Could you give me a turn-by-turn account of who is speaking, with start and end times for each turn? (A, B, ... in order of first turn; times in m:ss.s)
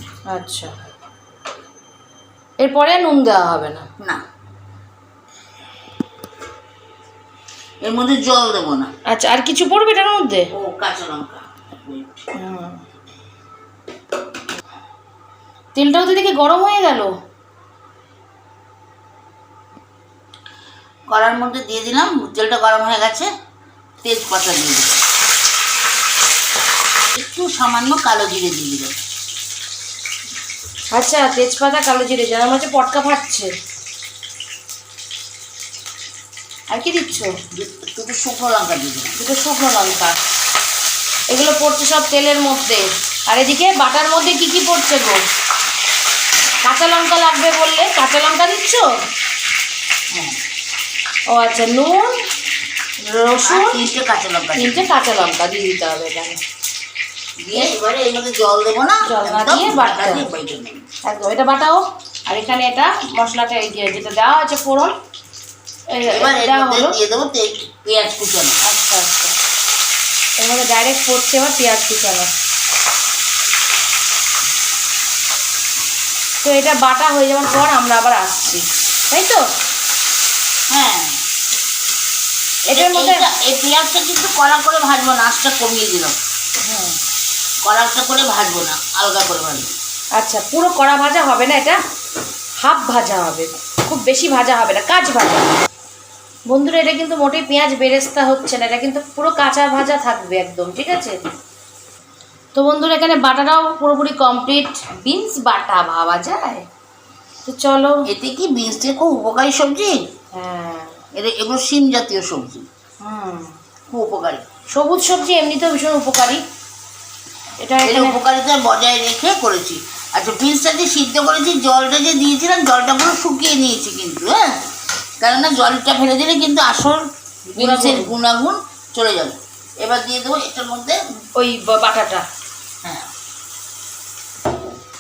0:00.3-0:00.7 A
0:02.6-0:03.9 A
0:07.8-0:08.9 B
0:09.1-0:10.5 A
0:10.5-0:12.2 B
0:12.4-0:12.8 A
0:15.8-0:17.1 A
0:21.1-0:23.3 B
0:24.0-0:25.0 B
0:27.2-0:28.9 B
0:30.9-0:33.5 A
0:36.7-0:37.3 A
0:37.5-0:39.2 B
0:39.2-0:40.2 A
0:41.3-0:45.2 A
0:46.6-0:49.0 A
0:50.1-0:50.4 B
0:51.3-0:52.2 A
0:53.0-0:53.8 A
0:53.4-0:54.9 B
0:54.6-0:56.4 A
0:57.4-1:00.8 B
0:59.0-1:00.3 A
1:01.1-1:05.0 A
1:05.9-1:07.0 A
1:06.1-1:08.6 B
1:08.6-1:09.4 A
1:10.4-1:12.3 A
1:16.4-1:19.5 A
1:20.7-1:21.2 B
1:22.7-1:26.2 B
1:22.7-1:23.3 A
1:26.6-1:27.0 A
1:27.6-1:29.7 B
1:30.2-1:31.8 A
1:32.6-1:35.5 A
1:36.5-1:41.2 A
1:42.6-1:46.6 A
1:47.5-1:48.0 A
1:48.1-1:50.0 B
1:50.3-1:51.0 A
1:51.1-1:52.6 B
1:53.0-1:53.6 A
1:53.9-1:54.5 B
1:54.7-1:56.4 A
1:57.6-1:58.2 A
1:57.8-2:04.5 B
2:05.2-2:07.0 B
2:07.5-2:08.1 A
2:07.6-2:11.0 B
2:11.4-2:12.2 A